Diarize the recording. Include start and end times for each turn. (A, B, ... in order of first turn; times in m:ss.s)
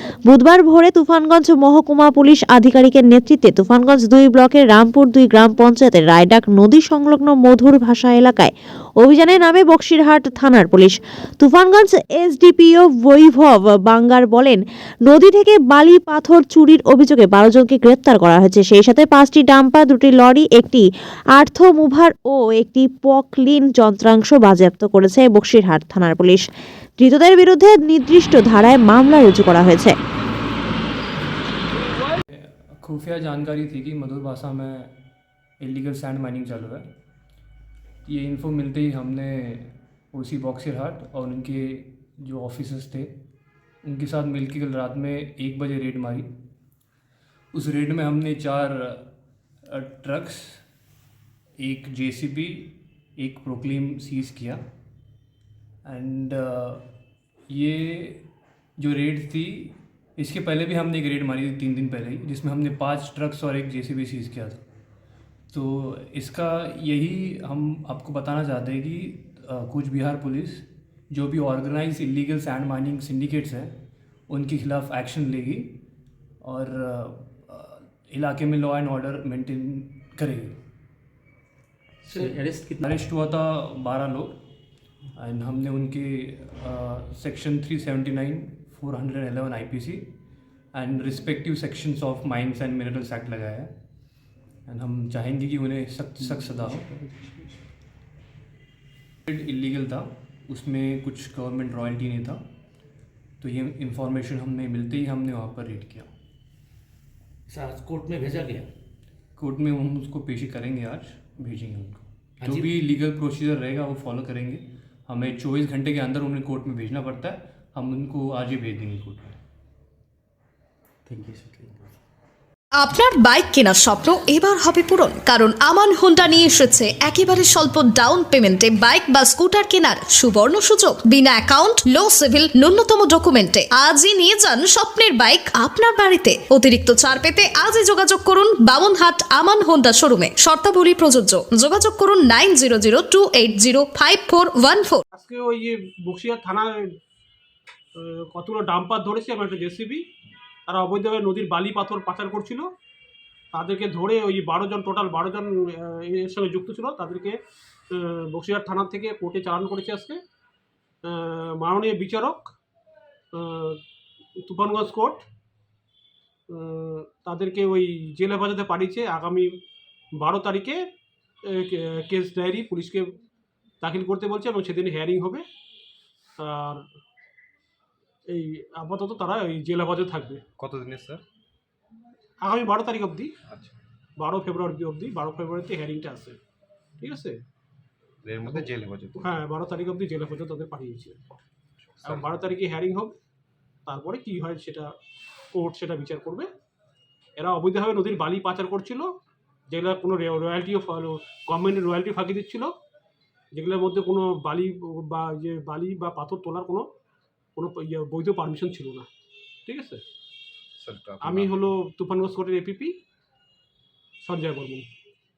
0:00.3-0:20.8 A
0:21.4-0:26.5 A
0:27.0-0:30.0 A
0:32.3-0:34.9 B
0:35.6-0:36.8 B
0:38.0-0:43.1 B
0:43.8-0:46.3 B
0:47.5-0:49.1 B
0:49.6-0:50.6 B
0:51.6-0:54.6 B
0:55.8-0:56.8 B
0:57.5-0:58.2 B
0:58.8-1:04.6 B
1:05.5-1:13.7 B
1:14.3-1:15.8 B
1:16.4-1:20.5 B
1:22.0-1:22.8 C
1:22.1-1:24.4 B
1:25.2-1:30.1 B
1:30.7-1:33.7 B
1:34.7-1:36.9 B
1:36.3-1:37.5 C
1:39.3-1:42.4 B
1:43.4-1:46.1 B
1:47.5-1:48.7 D
1:49.4-1:59.4 B
1:52.4-1:52.7 D
2:01.0-2:01.9 C
2:02.8-2:25.0 D
2:25.1-2:27.0 E
2:27.9-2:30.1 E
2:30.7-2:32.7 E
2:33.5-2:37.4 E
2:37.9-2:40.2 E
2:41.0-2:42.5 E
2:43.3-2:43.8 E
2:44.4-2:45.2 E
2:46.5-2:49.6 E
2:50.1-2:53.2 E
2:53.8-2:55.4 E
2:56.4-2:56.9 E
2:58.3-3:00.4 E
3:00.6-3:01.2 F
3:02.4-3:03.3 E
3:03.5-3:03.8 F
3:04.2-3:06.4 E
3:07.0-3:07.4 E
3:08.2-3:09.4 F
3:09.2-3:11.3 E
3:11.8-3:12.5 F
3:12.1-3:13.1 E
3:13.8-3:14.9 E
3:15.5-3:16.5 E
3:17.4-3:19.2 E
3:19.7-3:22.7 E
3:23.5-3:26.9 E
3:27.6-3:29.1 E
3:29.6-3:30.0 E
3:30.8-3:31.6 F
3:31.2-3:33.0 E
3:34.2-3:34.9 E